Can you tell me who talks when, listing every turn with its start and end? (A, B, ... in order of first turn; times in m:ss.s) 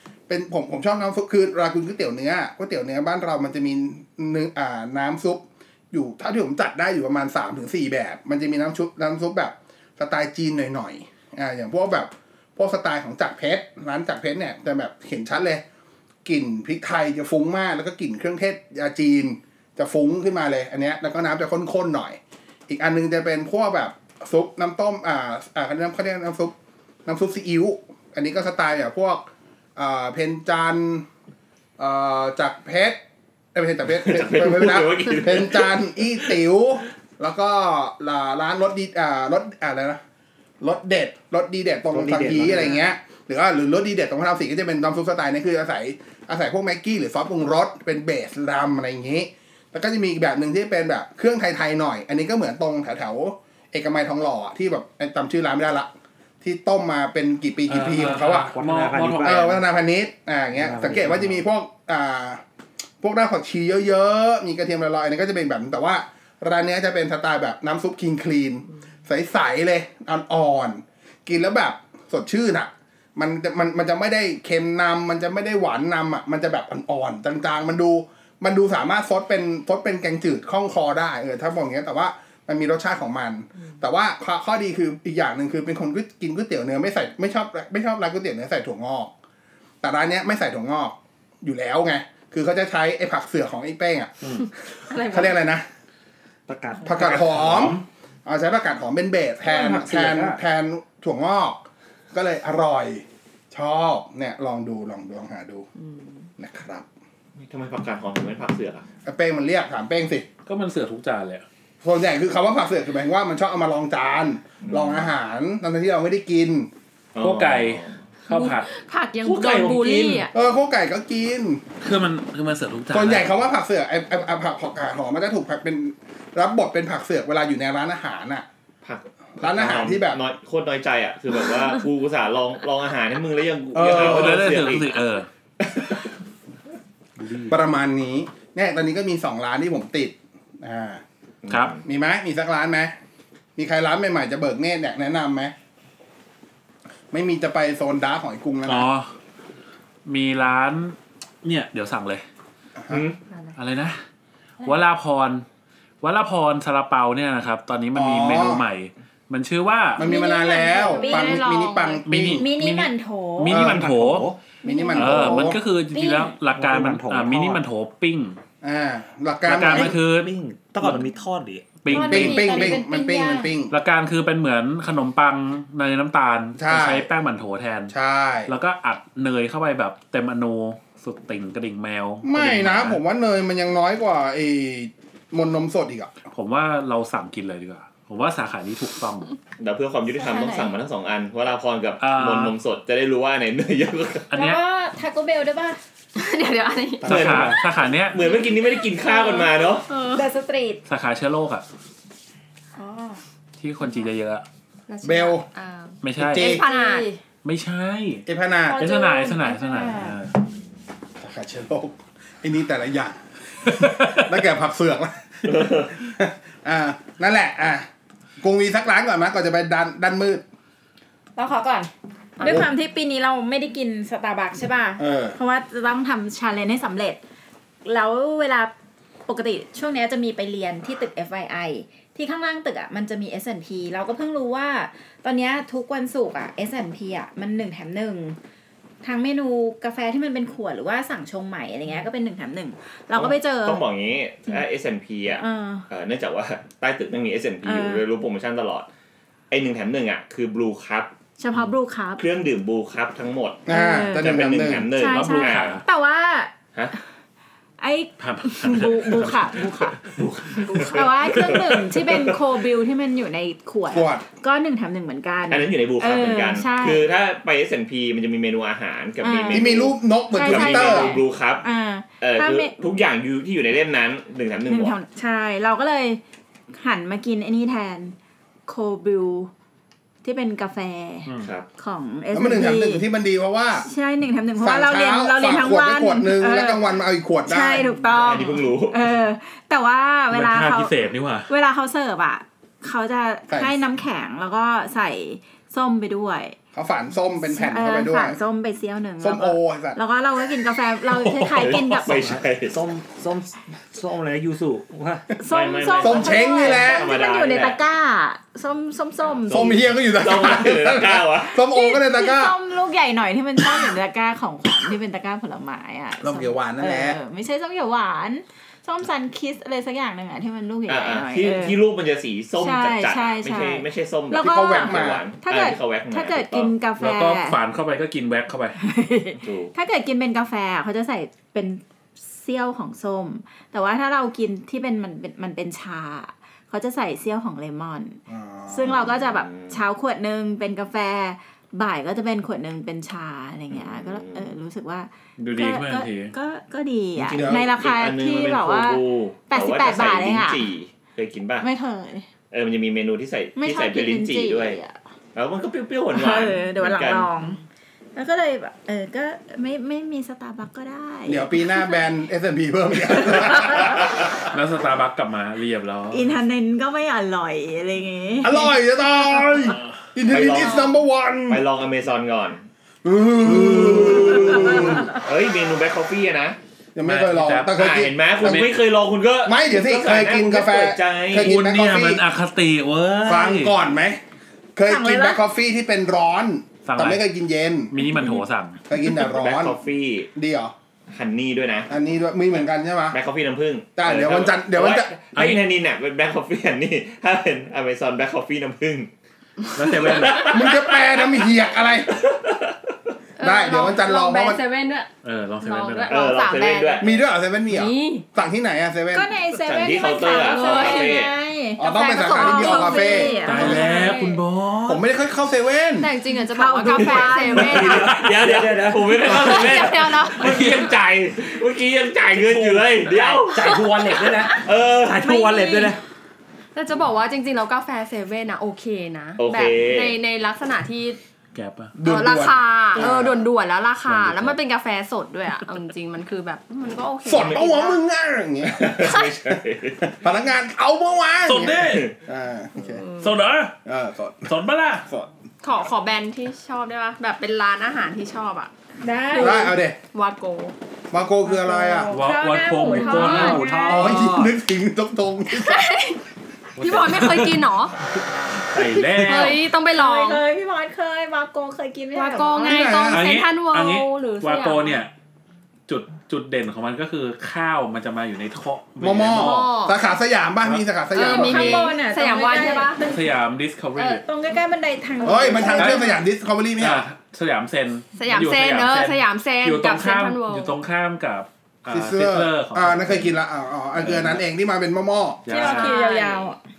0:00.3-0:15.6 A
0:16.2-0:26.5 A
0:27.0-0:31.1 A
0:31.8-0:33.0 A
0:33.5-0:40.0 A
0:33.9-0:36.0 B
0:40.6-0:58.5 A
0:41.9-0:42.8 C
0:57.7-0:59.6 D
0:58.0-0:59.6 C
0:59.2-1:02.4 A
1:00.5-1:01.4 C
1:03.0-1:29.1 A
1:29.8-1:34.3 A
1:34.9-1:35.4 E
1:34.9-1:35.6 A
1:36.5-1:37.8 C
1:36.8-1:45.7 A
1:37.4-1:37.8 D
1:39.4-1:40.4 C
1:46.4-1:46.8 A
1:47.4-1:48.8 B
1:49.0-1:50.3 A
1:50.4-1:51.4 D
1:51.8-1:56.7 A
1:54.6-1:55.1 B
1:57.1-1:58.0 B
1:57.2-1:58.7 D
1:58.2-2:00.3 E
1:59.2-2:00.3 D
2:00.3-2:01.6 A
2:01.8-2:03.3 D
2:02.9-2:08.4 A
2:08.8-2:15.0 B
2:09.4-2:10.2 A
2:13.7-2:14.5 A
2:13.8-2:15.3 D
2:15.6-2:16.0 B
2:17.2-2:17.5 D
2:17.4-2:21.0 A
2:21.4-2:21.8 B
2:21.5-2:21.8 D
2:21.8-2:22.9 A
2:23.6-2:25.5 A
2:27.1-2:28.9 A
2:28.6-2:29.1 D
2:30.0-2:32.2 D
2:32.8-2:33.0 A
2:32.9-2:33.2 B
2:33.3-2:33.6 E
2:33.6-2:34.0 D
2:34.6-2:35.4 D
2:36.0-2:40.0 D
2:37.9-2:38.6 A
2:40.0-2:42.4 A
2:40.0-2:41.4 F
2:40.7-2:42.0 E
2:42.0-2:44.3 D
2:42.3-2:43.6 F
2:43.5-2:43.9 A
2:43.5-2:44.4 C
2:44.6-2:46.3 F
2:44.6-2:45.6 A
2:44.9-2:48.4 D
2:46.5-2:47.6 C
2:48.6-2:50.0 A
2:49.5-2:51.0 D
2:49.6-2:51.8 C
2:51.8-2:52.7 D
2:51.9-2:53.5 F
2:51.9-2:53.7 A
2:53.7-2:57.9 D
2:56.6-2:57.1 A
2:57.9-2:58.5 A
2:58.5-3:03.0 D
3:02.2-3:06.1 A
3:06.3-3:09.3 D
3:09.6-3:14.3 B
3:10.1-3:10.7 F
3:12.0-3:12.5 D
3:14.3-3:14.6 D
3:14.3-3:15.8 F
3:16.2-3:17.2 E
3:17.0-3:18.2 D
3:17.0-3:19.9 B
3:17.1-3:17.5 A
3:18.8-3:20.3 E
3:20.1-3:20.8 F
3:20.8-3:21.6 D
3:22.8-3:23.2 F
3:23.6-3:24.4 D
3:24.9-3:27.1 E
3:25.0-3:25.4 A
3:26.0-3:26.6 D
3:26.2-3:26.6 A
3:26.4-3:27.2 F
3:27.4-3:30.3 D
3:28.3-3:28.8 A
3:28.7-3:30.2 F
3:31.2-3:37.9 A
3:33.7-3:34.3 D
3:35.4-3:36.0 B
3:38.4-3:40.4 A
3:41.4-3:47.2 F
3:42.4-3:42.7 A
3:45.0-3:45.4 A
3:47.8-3:48.7 F
3:49.3-3:58.4 F
3:59.0-4:03.8 F
4:03.2-4:08.9 B
4:05.4-4:05.8 F
4:07.6-4:08.0 F
4:09.5-4:11.1 B
4:11.4-4:12.2 F
4:12.2-4:15.8 B
4:13.6-4:14.9 A
4:13.7-4:14.4 F
4:14.9-4:16.5 F
4:15.0-4:15.8 D
4:17.8-4:20.0 F
4:18.2-4:20.2 D
4:20.2-4:22.4 B
4:20.6-4:27.1 F
4:23.9-4:24.2 A
4:25.5-4:31.6 B
4:29.2-4:32.7 F
4:29.5-4:31.2 A
4:32.2-4:35.0 B
4:34.7-4:36.2 F
4:36.7-4:38.2 F
4:38.7-4:39.5 F
4:40.2-4:43.0 F
4:41.2-4:41.5 D
4:42.3-4:43.8 A
4:43.8-4:46.9 F
4:44.6-4:47.9 A
4:47.4-4:56.6 F
4:48.1-4:49.1 B
4:50.3-4:51.5 D
4:53.5-4:53.8 A
4:56.7-4:58.4 A
4:57.4-5:02.2 F
4:59.2-5:00.0 A
5:01.2-5:02.0 D
5:01.4-5:02.8 B
5:02.1-5:05.3 C
5:05.4-5:09.8 F
5:05.5-5:07.8 B
5:06.0-5:07.1 A
5:09.3-5:11.6 B
5:09.5-5:12.5 A
5:11.6-5:21.8 F
5:16.2-5:17.2 A
5:20.9-5:26.7 B
5:22.6-5:27.6 F
5:24.3-5:25.2 A
5:27.0-5:28.8 D
5:28.8-5:50.6 F
5:29.4-5:29.7 B
5:38.3-5:39.0 A
5:38.8-5:39.8 B
5:43.7-5:44.5 B
5:45.4-5:46.3 D
5:47.2-5:51.7 B
5:47.3-5:47.6 A
5:51.6-5:52.3 F
5:52.5-5:54.8 B
5:53.6-5:55.0 F
5:55.3-5:57.3 B
5:56.1-5:57.6 F
5:58.1-6:02.0 F
6:01.3-6:04.2 A
6:03.4-6:03.9 F
6:04.5-6:06.3 D
6:06.1-6:08.7 F
6:08.4-6:11.6 A
6:10.3-6:10.9 B
6:10.5-6:10.9 E
6:11.5-6:12.6 B
6:13.0-6:15.1 A
6:13.4-6:16.6 B
6:16.9-6:18.7 A
6:17.0-6:17.8 D
6:17.7-6:21.5 B
6:19.4-6:22.2 A
6:21.4-6:23.7 D
6:23.2-6:24.2 A
6:24.7-6:27.9 A
6:24.8-6:25.4 F
6:26.8-6:27.2 D
6:27.9-6:28.8 D
6:28.9-6:29.8 A
6:29.1-6:30.3 B
6:30.3-6:30.7 A
6:31.1-6:31.9 B
6:31.9-6:33.2 A
6:33.1-6:39.1 B
6:34.0-6:35.1 A
6:35.3-6:35.6 D
6:39.7-6:40.3 E
6:39.8-6:40.4 D
6:39.8-6:41.4 B
6:40.0-6:40.3 C
6:40.4-6:42.2 A
6:42.1-6:42.7 B
6:43.4-6:48.2 E
6:43.4-6:44.6 A
6:45.2-6:46.2 D
6:46.1-6:47.1 B
6:47.0-6:49.3 A
6:49.1-6:54.2 F
6:49.6-6:51.3 B
6:50.2-6:51.2 E
6:51.8-6:53.9 A
6:51.8-6:54.4 E
6:53.4-6:55.0 D
6:54.8-6:56.1 A
6:56.0-6:58.3 E
6:56.5-6:57.9 F
6:57.6-7:00.1 C
6:57.6-7:03.8 B
6:59.2-7:00.8 E
7:00.4-7:00.9 D
7:02.3-7:03.4 D
7:03.4-7:06.0 C
7:03.6-7:04.7 E
7:04.5-7:05.2 B
7:05.2-7:06.0 E
7:06.7-7:11.2 E
7:09.4-7:10.2 B
7:11.5-7:12.0 D
7:12.0-7:13.4 A
7:12.0-7:18.0 E
7:14.0-7:14.6 D
7:17.2-7:23.0 A
7:17.3-7:17.6 B
7:18.7-7:20.1 B
7:21.4-7:22.1 D
7:21.9-7:22.1 B
7:22.8-7:23.4 E
7:23.2-7:23.8 D
7:23.8-7:24.6 A
7:24.4-7:25.1 D
7:25.6-7:28.7 E
7:29.0-7:29.7 F
7:29.3-7:30.7 E
7:29.3-7:30.0 A
7:31.1-7:32.1 A
7:31.4-7:34.1 F
7:32.1-7:33.7 D
7:32.7-7:34.2 E
7:33.2-7:34.5 C
7:33.8-7:35.9 A
7:35.5-7:36.2 E
7:36.8-7:37.6 D
7:36.8-7:37.9 E
7:38.7-7:39.6 D
7:39.2-7:40.4 E
7:39.9-7:43.0 F
7:42.1-7:45.0 E
7:42.6-7:43.3 A
7:43.1-7:45.1 D
7:45.9-7:49.7 D
7:49.0-7:51.9 A
7:49.3-7:50.0 E
7:51.1-7:53.0 E
7:51.2-7:53.3 F
7:53.0-7:54.2 D
7:54.0-7:56.2 F
7:55.2-7:57.0 A
7:55.7-7:56.1 D
7:56.8-8:03.4 D
7:58.1-8:00.8 E
8:01.9-8:05.5 A
8:04.0-8:04.4 D
8:05.4-8:05.9 D
8:05.5-8:06.6 F
8:05.5-8:06.5 E